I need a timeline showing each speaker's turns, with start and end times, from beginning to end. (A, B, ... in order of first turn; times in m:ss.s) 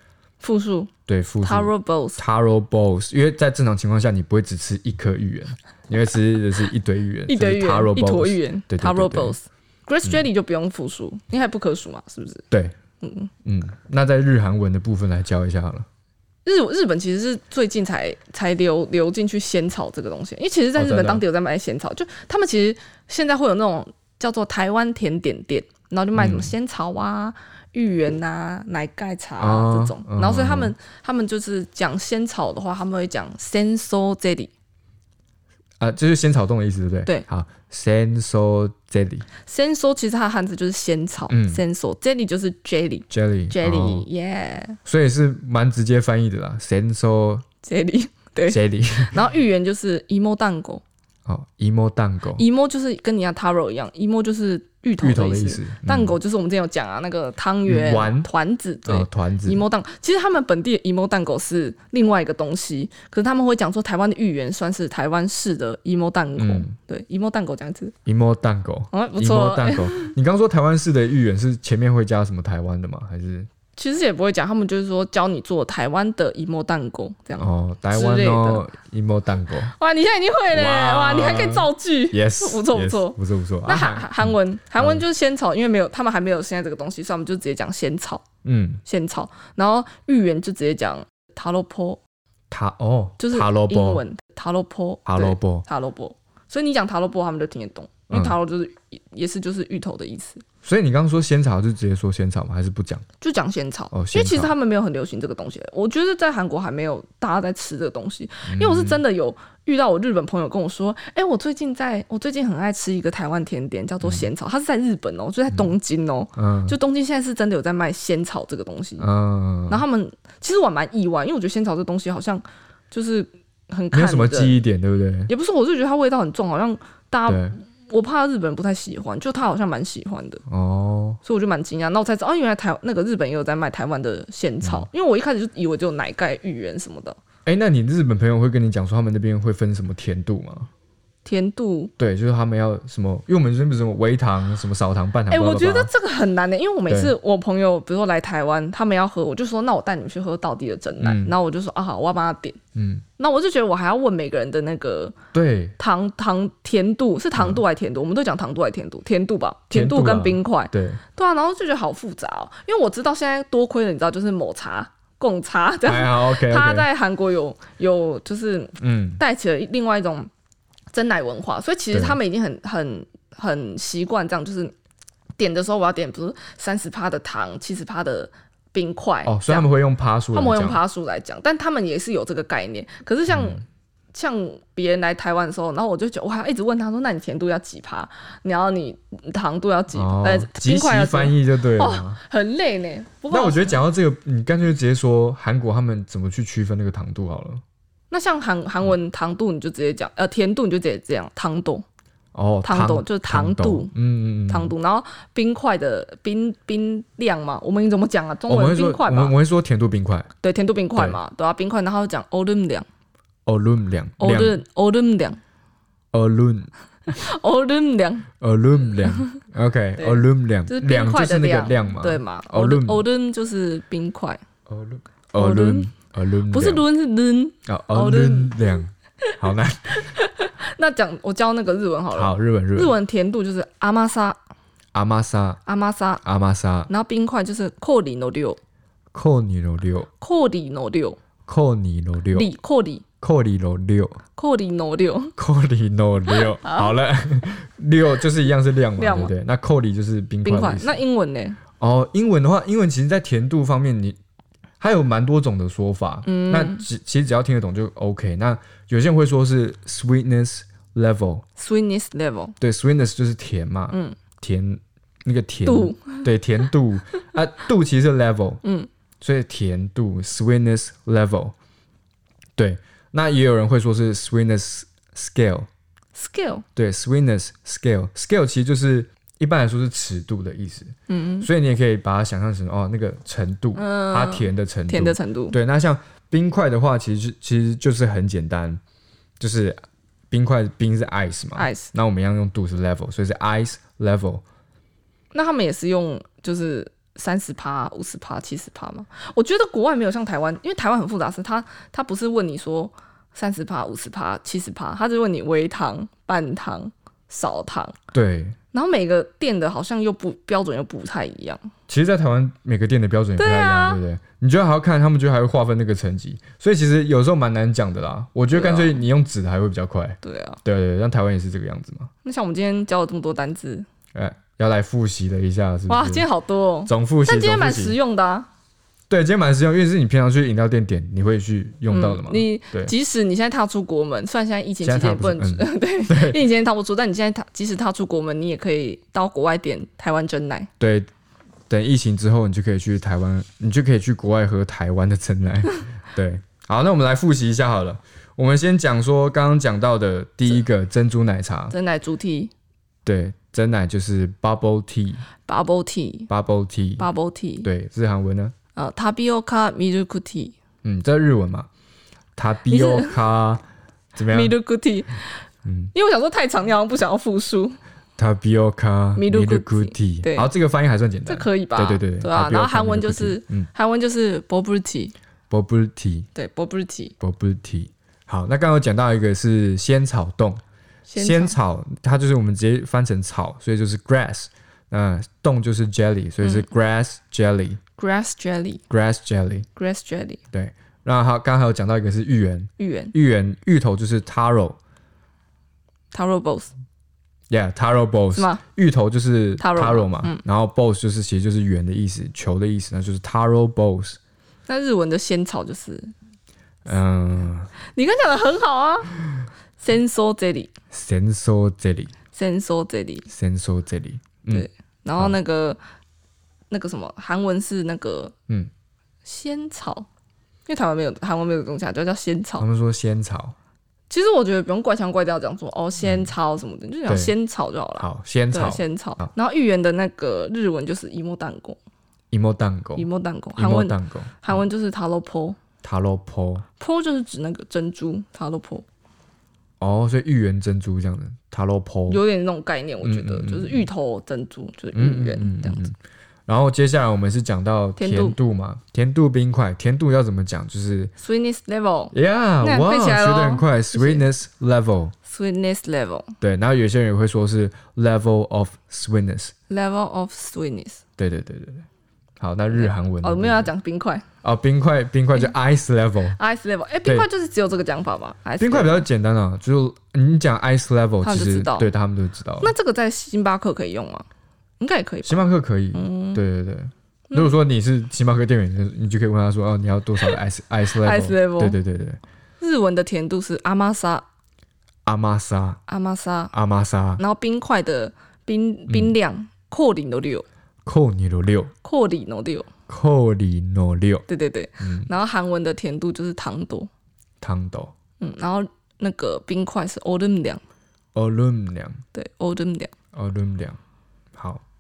0:00.4-0:02.2 A
0:01.1-0:09.4 B
0:07.3-0:12.4 A
0:13.0-0:13.3 A
0:13.4-0:15.9 B
0:16.4-0:34.5 A
0:20.8-0:21.2 B
0:26.2-0:26.5 B
0:29.4-0:30.7 B
0:35.8-0:39.3 B
0:39.4-0:44.8 A
0:41.3-0:41.6 B
0:43.1-0:44.1 B
0:44.8-0:47.4 B
0:47.6-0:50.8 A
0:48.5-0:49.3 B
0:51.3-0:52.4 B
0:52.4-1:07.9 A
0:55.0-0:56.2 B
0:57.7-0:58.3 B
0:58.8-0:59.6 B
1:06.4-1:06.7 B
1:08.1-1:13.5 B
1:08.9-1:10.1 A
1:13.8-1:18.6 A
1:17.4-1:19.7 B
1:19.7-1:28.2 A
1:20.5-1:25.0 B
1:28.4-1:28.8 B
1:28.8-1:32.0 A
1:32.5-1:34.0 B
1:33.2-1:40.4 A
1:35.1-1:35.6 B
1:38.1-1:38.4 B
1:40.6-1:43.0 B
1:43.2-1:59.1 A
1:43.9-1:44.5 B
1:48.5-1:49.0 B
1:54.0-1:54.3 B
1:56.4-1:56.8 B
1:59.0-1:59.8 B
1:59.7-2:04.6 A
2:03.9-2:05.3 B
2:05.3-2:10.4 A
2:07.3-2:07.6 B
2:10.5-2:11.2 B
2:11.2-2:17.2 A
2:14.6-2:14.9 B
2:17.5-2:20.7 B
2:21.2-2:21.9 A
2:22.0-2:25.9 B
2:25.3-2:32.6 A
2:26.9-2:27.1 B
2:31.0-2:31.3 B
2:32.8-2:33.0 B
2:33.2-2:35.2 A
2:35.3-2:35.8 B
2:35.8-2:50.3 A
2:37.4-2:37.6 B
2:39.7-2:41.0 B
2:45.8-2:46.9 B
2:48.8-2:49.2 B
2:50.9-2:54.7 A
2:51.9-2:52.2 B
2:55.4-2:59.7 A
2:59.2-3:00.8 B
3:00.3-3:13.8 A
3:03.3-3:03.6 B
3:09.9-3:12.2 B
3:13.3-3:17.6 B
3:18.1-3:21.8 A
3:22.3-3:24.7 B
3:22.6-3:23.9 A
3:24.5-3:29.4 A
3:28.5-3:30.3 B
3:30.4-3:32.9 A
3:33.5-3:34.6 B
3:34.2-3:35.4 A
3:36.1-3:36.7 B
3:37.1-3:38.3 A
3:38.4-3:43.0 B
3:39.0-3:39.3 A
3:40.0-3:44.4 A
3:44.7-3:46.8 B
3:45.4-3:45.9 A
3:46.5-3:48.6 A
3:47.7-3:50.1 B
3:50.0-3:54.4 A
3:52.1-3:53.0 B
3:54.9-3:55.6 B
3:55.7-3:56.2 A
3:56.2-3:56.9 B
3:56.9-3:58.6 A
3:59.1-4:00.1 B
4:00.2-4:01.2 A
4:01.5-4:02.5 B
4:02.3-4:03.0 A
4:03.2-4:04.2 B
4:04.4-4:05.3 A
4:05.4-4:11.0 B
4:06.3-4:06.9 A
4:09.0-4:09.3 A
4:10.4-4:11.6 A
4:11.8-4:14.2 B
4:14.8-4:21.4 B
4:16.2-4:16.9 A
4:21.6-4:22.6 A
4:22.6-4:28.6 B
4:23.9-4:24.2 A
4:25.7-4:26.3 A
4:28.6-4:28.9 A
4:29.2-4:31.5 B
4:32.6-4:35.7 B
4:36.2-4:36.6 A
4:36.8-4:48.8 B
4:41.1-4:41.5 A
4:43.7-4:45.6 A
4:49.4-4:49.8 B
4:50.3-4:54.4 B
4:51.6-4:51.9 A
4:55.3-5:08.0 A
5:08.1-5:08.6 B
5:08.7-5:11.6 A
5:11.9-5:22.1 B
5:13.4-5:14.0 A
5:18.5-5:19.0 A
5:20.2-5:20.6 A
5:22.2-5:23.9 A
5:24.1-5:26.3 B
5:25.9-5:28.5 A
5:26.9-5:28.0 B
5:29.1-5:32.9 B
5:31.9-5:40.7 A
5:34.8-5:36.5 B
5:40.8-5:41.1 B
5:41.7-5:51.7 B
5:51.7-5:52.5 A
5:53.0-5:55.3 B
5:55.5-5:56.3 A
5:56.3-5:57.1 B
5:57.0-5:57.7 A
5:57.6-5:58.6 B
5:58.8-6:00.6 A
6:00.8-6:01.7 B
6:02.4-6:04.6 B
6:02.7-6:03.2 A
6:04.3-6:05.4 A
6:05.6-6:05.9 B
6:05.9-6:07.8 A
6:08.2-6:13.7 B
6:09.2-6:10.5 A
6:11.3-6:15.1 A
6:15.5-6:16.3 B
6:16.3-6:17.1 A
6:17.2-6:20.6 B
6:21.1-6:21.6 A
6:21.2-6:27.8 B
6:26.4-6:26.7 A
6:28.0-6:28.8 A
6:28.9-6:29.7 B
6:29.8-6:30.4 A
6:30.5-6:34.8 B
6:32.8-6:33.1 A
6:36.1-6:36.7 A
6:37.5-6:44.2 B
6:38.3-6:38.6 A
6:39.6-6:40.4 A
6:44.7-6:46.1 A
6:46.8-6:47.7 B
6:48.0-6:49.1 A
6:49.8-6:50.7 A
6:50.9-6:52.1 B
6:52.3-6:53.3 A
6:53.3-6:55.4 B
6:54.5-6:55.8 A
6:56.7-6:58.3 A
6:59.2-7:00.1 A
7:00.7-7:02.7 A
7:02.6-7:03.6 B
7:04.1-7:11.8 A
7:06.0-7:06.3 B
7:07.1-7:07.3 B
7:08.0-7:09.3 B
7:12.3-7:14.6 B
7:13.0-7:15.6 A
7:15.8-7:16.6 B
7:16.8-7:18.8 A
7:19.8-7:22.2 B
7:22.1-7:25.8 A
7:23.0-7:23.9 B
7:24.9-7:26.0 B
7:26.5-7:31.1 B
7:28.0-7:28.4 A
7:31.2-7:34.3 A
7:32.1-7:35.2 B
7:35.3-7:36.3 A
7:36.4-7:39.5 B
7:39.7-7:41.0 A
7:41.2-7:41.9 B
7:42.4-7:43.7 B
7:42.7-7:44.2 A
7:44.4-7:46.4 B
7:46.4-7:49.1 A
7:48.6-7:52.7 B
7:51.2-7:51.9 A
7:52.6-7:54.3 A
7:54.8-7:56.4 A
7:55.2-8:02.2 B
8:00.9-8:01.8 A
8:02.6-8:04.2 A
8:05.1-8:05.8 B
8:05.9-8:06.5 A
8:06.5-8:07.2 B
8:07.2-8:10.4 A
8:08.9-8:09.2 B
8:10.9-8:11.7 B
8:11.8-8:12.7 A
8:12.9-8:14.2 B
8:14.3-8:16.9 A
8:14.8-8:15.1 B
8:17.4-8:17.9 B
8:18.2-8:20.6 A
8:21.2-8:22.0 B
8:22.1-8:22.9 A
8:23.1-8:23.8 B
8:24.4-8:24.6 B